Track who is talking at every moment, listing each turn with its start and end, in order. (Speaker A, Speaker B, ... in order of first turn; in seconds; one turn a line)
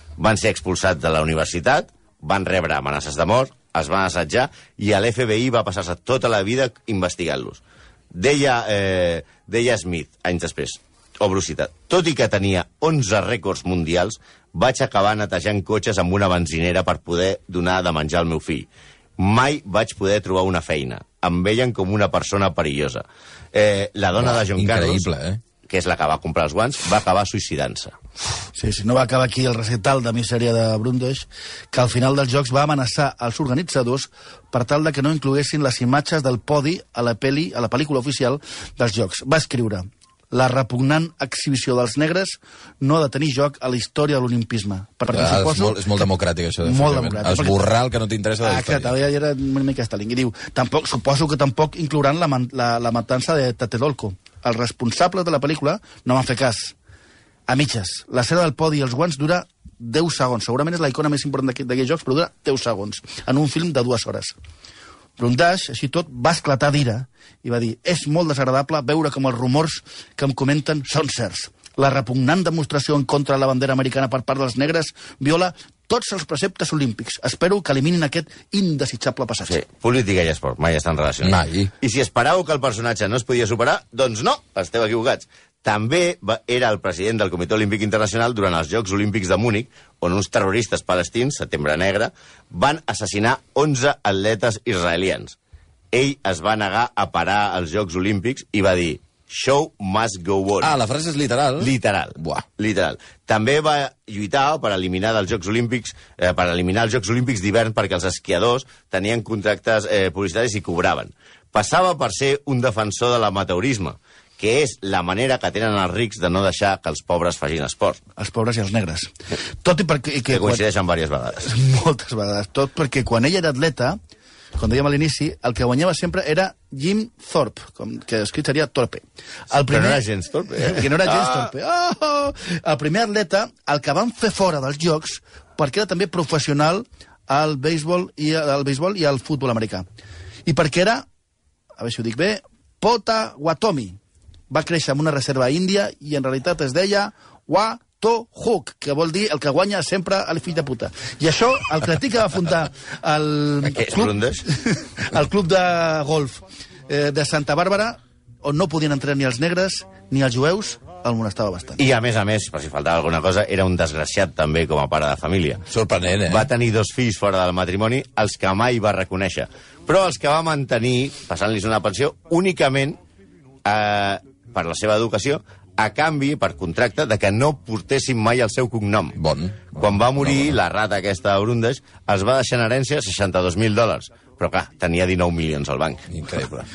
Speaker A: 0.2-7.6
Speaker A: 8.1-18.7
Speaker A: 19.2-25.1
Speaker B: 24.2-25.4
Speaker A: 25.7-27.9
Speaker C: 28.5-45.9
Speaker B: 45.1-48.9
Speaker C: 46.6-47.6
Speaker C: 48.4-56.7
Speaker C: 57.5-64.3
Speaker C: 65.2-79.6
Speaker A: 79.5-95.3
Speaker B: 81.2-81.7
Speaker A: 95.9-100.8
Speaker B: 100.6-102.5
Speaker A: 101.6-118.0
Speaker C: 118.2-119.1
Speaker C: 119.6-120.6
Speaker A: 120.3-121.5
Speaker C: 121.4-124.0
Speaker C: 124.6-130.0
Speaker A: 129.7-131.5
Speaker C: 130.6-139.8
Speaker C: 140.4-141.1
Speaker C: 141.8-144.0
Speaker C: 144.5-161.8
Speaker A: 153.7-154.4
Speaker A: 161.8-165.6
Speaker B: 165.7-166.5
Speaker A: 166.3-173.0
Speaker A: 173.6-179.2
Speaker B: 179.2-180.6
Speaker A: 179.7-186.0
Speaker B: 186.1-186.7